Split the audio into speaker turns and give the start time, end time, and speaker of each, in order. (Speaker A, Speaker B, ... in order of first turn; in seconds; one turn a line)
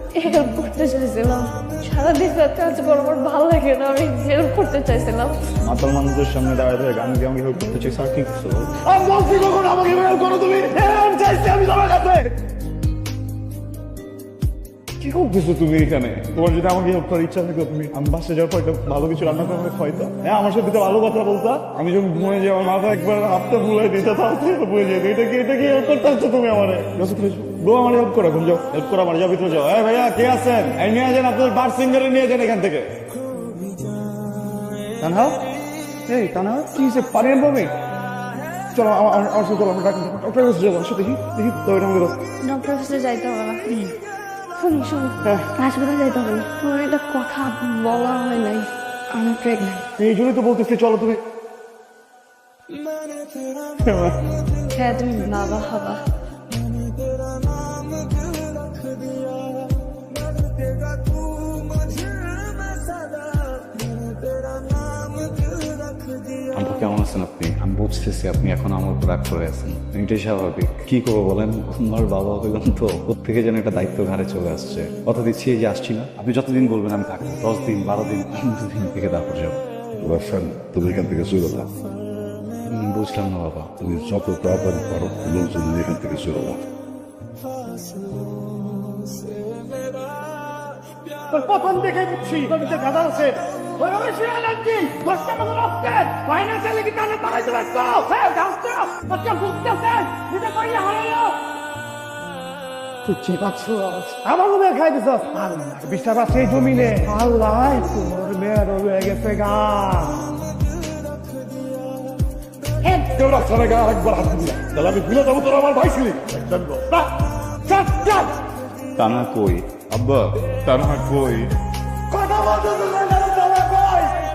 Speaker A: 0.1-5.4
Speaker B: 5.6-8.7
Speaker C: 8.9-9.8
Speaker B: 9.9-11.9
Speaker B: 15.0-32.9
Speaker B: 35.0-35.4
Speaker B: 36.1-37.7
Speaker B: 38.7-42.1
Speaker A: 42.4-44.0
Speaker A: 44.6-49.8
Speaker B: 45.2-45.5
Speaker B: 50.0-51.2
Speaker B: 53.8-54.2
Speaker A: 54.7-56.0
Speaker D: 66.5-79.6
Speaker E: 80.0-81.7
Speaker D: 82.7-83.8
Speaker E: 83.8-86.6
Speaker C: 91.3-101.4
Speaker C: 103.1-110.2
Speaker C: 112.8-117.0
Speaker C: 117.7-118.3
Speaker B: 119.0-121.5
Speaker C: 122.1-124.0